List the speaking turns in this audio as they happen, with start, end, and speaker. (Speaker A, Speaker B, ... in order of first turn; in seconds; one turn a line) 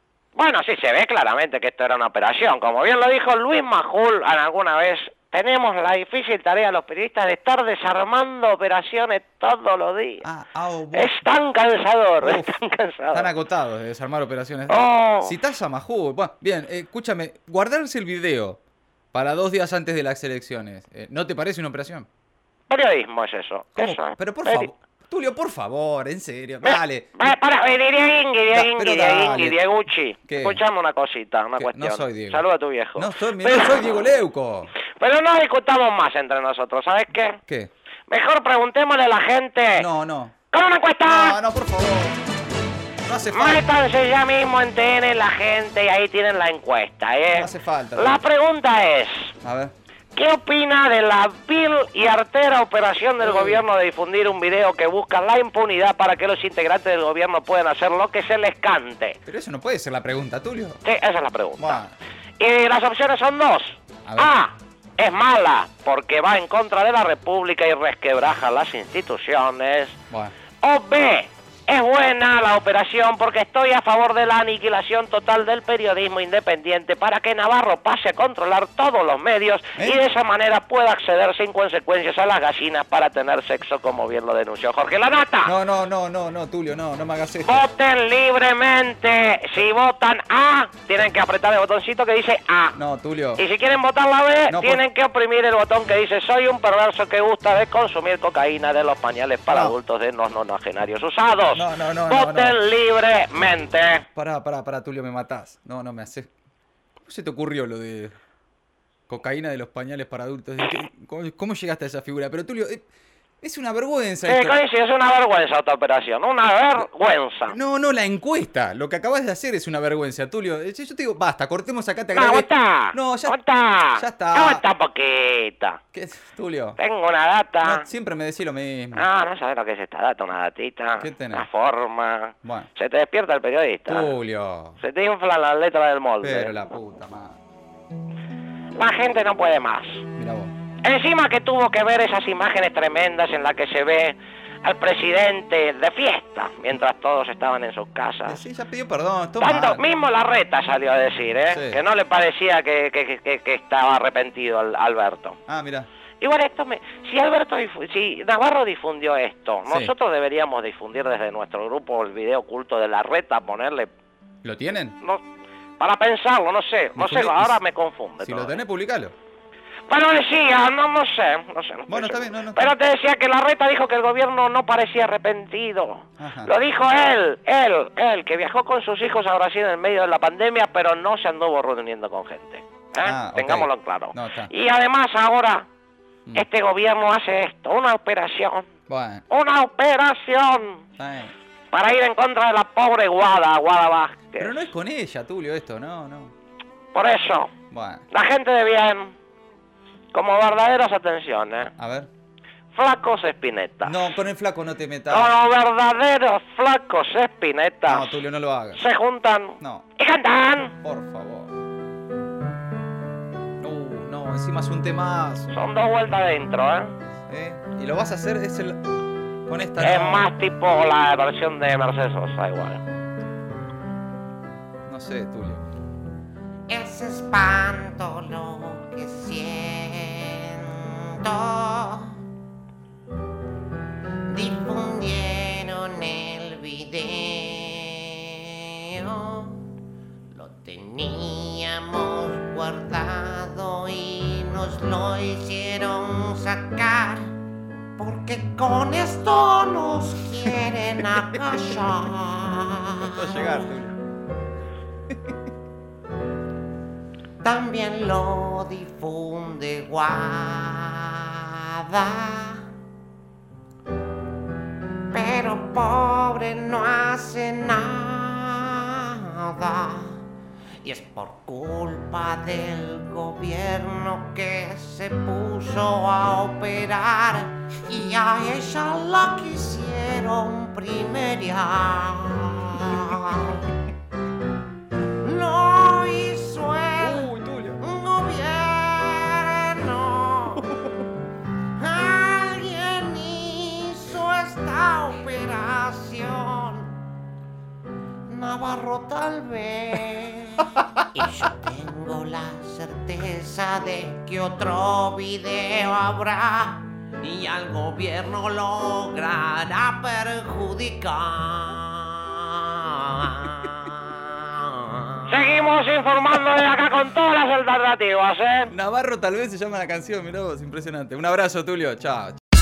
Speaker A: 0.3-10.2
Speaker B: 10.2-11.2
Speaker A: 10.9-13.3
Speaker B: 12.2-12.6
Speaker B: 13.1-18.6
Speaker A: 14.7-15.3
Speaker B: 19.1-22.1
Speaker A: 22.7-24.7
Speaker B: 23.8-27.3
Speaker A: 26.6-34.0
Speaker B: 28.5-29.6
Speaker B: 30.2-30.6
Speaker B: 31.6-34.7
Speaker A: 35.0-37.4
Speaker A: 38.1-39.9
Speaker B: 39.8-40.3
Speaker A: 40.5-41.4
Speaker B: 41.0-42.2
Speaker B: 43.0-43.6
Speaker A: 43.3-49.3
Speaker B: 47.3-48.2
Speaker B: 49.4-49.7
Speaker A: 50.1-59.2
Speaker B: 53.2-53.6
Speaker B: 59.2-60.8
Speaker A: 60.8-61.8
Speaker B: 61.6-61.9
Speaker A: 62.4-70.0
Speaker B: 64.0-64.3
Speaker A: 70.6-85.5
Speaker B: 79.8-80.0
Speaker B: 85.4-87.7
Speaker A: 87.4-92.8
Speaker B: 92.7-93.4
Speaker A: 93.4-104.0
Speaker B: 94.5-94.8
Speaker B: 99.5-99.8
Speaker B: 101.5-102.6
Speaker B: 104.1-106.3
Speaker B: 107.0-108.1
Speaker B: 109.1-112.8
Speaker B: 113.4-114.6
Speaker A: 114.2-117.5
Speaker B: 117.5-123.4
Speaker A: 122.1-125.8
Speaker B: 123.9-124.6
Speaker B: 125.9-126.8
Speaker A: 126.8-127.8
Speaker B: 127.6-129.1
Speaker A: 128.9-134.1
Speaker B: 131.0-131.4
Speaker B: 132.4-132.7
Speaker B: 133.9-134.8
Speaker A: 134.8-136.6
Speaker B: 136.2-137.4
Speaker A: 138.7-140.0
Speaker B: 140.2-140.5
Speaker A: 140.8-148.4
Speaker B: 148.2-149.8
Speaker A: 149.4-155.4
Speaker B: 151.5-151.8
Speaker B: 155.5-155.9
Speaker A: 156.2-163.9
Speaker B: 159.7-159.9
Speaker B: 164.4-164.9
Speaker A: 165.8-168.6
Speaker B: 166.9-167.6
Speaker B: 168.2-169.1
Speaker A: 169.9-185.7
Speaker B: 171.9-172.7
Speaker B: 176.2-176.5
Speaker B: 183.0-184.5
Speaker A: 186.3-188.7
Speaker B: 188.9-189.2
Speaker A: 189.3-190.8
Speaker B: 191.0-191.3
Speaker A: 191.7-194.6
Speaker B: 194.4-196.3
Speaker A: 196.9-197.5
Speaker B: 197.7-198.1
Speaker A: 198.1-199.1
Speaker A: 200.1-201.7
Speaker B: 201.8-202.1
Speaker A: 202.7-203.9
Speaker B: 203.8-205.3
Speaker A: 205.1-208.1
Speaker B: 207.8-208.8
Speaker A: 208.7-210.7
Speaker B: 209.6-209.8
Speaker B: 210.8-211.5
Speaker B: 213.6-215.5
Speaker A: 215.5-216.9
Speaker B: 217.3-218.8
Speaker B: 219.5-220.3
Speaker A: 219.8-222.8
Speaker B: 224.9-225.6
Speaker C: 226.7-232.2
Speaker C: 234.3-239.6
Speaker C: 240.3-247.3
Speaker C: 248.0-253.7
Speaker B: 253.0-253.9
Speaker C: 257.4-262.6
Speaker C: 265.1-270.2
Speaker C: 270.8-283.6
Speaker C: 285.2-287.3
Speaker B: 287.0-287.8
Speaker C: 287.8-290.6
Speaker C: 291.8-296.9
Speaker C: 298.3-315.4
Speaker A: 315.3-318.7
Speaker B: 318.7-322.4